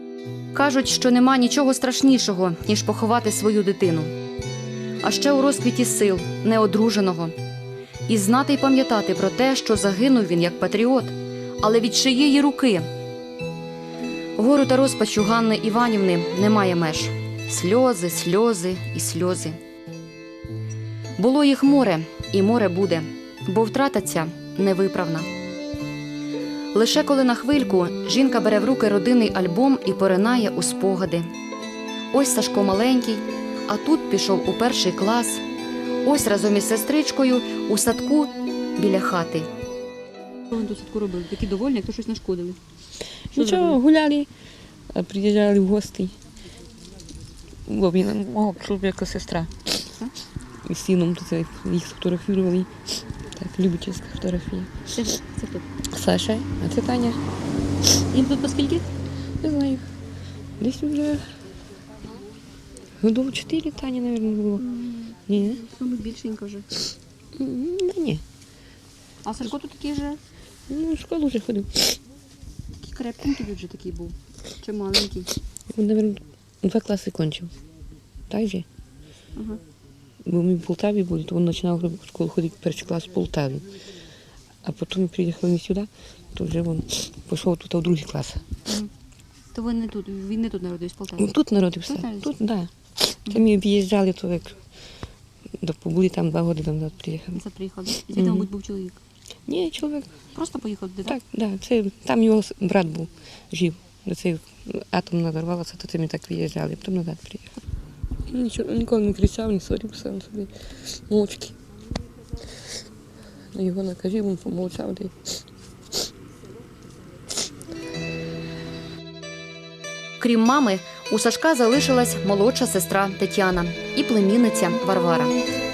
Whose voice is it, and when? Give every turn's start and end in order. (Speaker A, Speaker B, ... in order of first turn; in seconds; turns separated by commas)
Speaker A: 0.5-4.1, Speaker A: 5.0-7.3, Speaker A: 8.1-12.9, Speaker A: 14.4-19.6, Speaker A: 21.2-25.3, Speaker A: 26.7-31.3, Speaker A: 32.1-35.4, Speaker A: 36.0-39.5, Speaker B: 40.5-42.6, Speaker C: 43.3-44.3, Speaker B: 43.4-43.7, Speaker C: 44.9-46.2, Speaker C: 47.6-49.6, Speaker C: 50.6-54.7, Speaker C: 55.9-57.2, Speaker B: 58.1-58.8, Speaker C: 59.4-59.8, Speaker C: 60.6-61.2, Speaker C: 63.0-64.7, Speaker C: 65.2-65.6, Speaker B: 65.6-66.7, Speaker C: 67.3-68.2, Speaker B: 69.2-70.2, Speaker C: 70.7-72.0, Speaker B: 72.8-75.3, Speaker C: 75.7-77.5, Speaker C: 78.3-78.7, Speaker C: 80.2-83.7, Speaker C: 84.6-88.4, Speaker B: 89.5-91.3, Speaker C: 91.2-94.9, Speaker B: 91.8-92.3, Speaker C: 95.6-97.4, Speaker B: 97.3-99.0, Speaker C: 97.9-98.5, Speaker C: 99.5-100.1, Speaker B: 100.3-101.2, Speaker C: 101.0-107.6, Speaker C: 108.3-111.6, Speaker C: 113.5-115.2, Speaker A: 120.2-125.4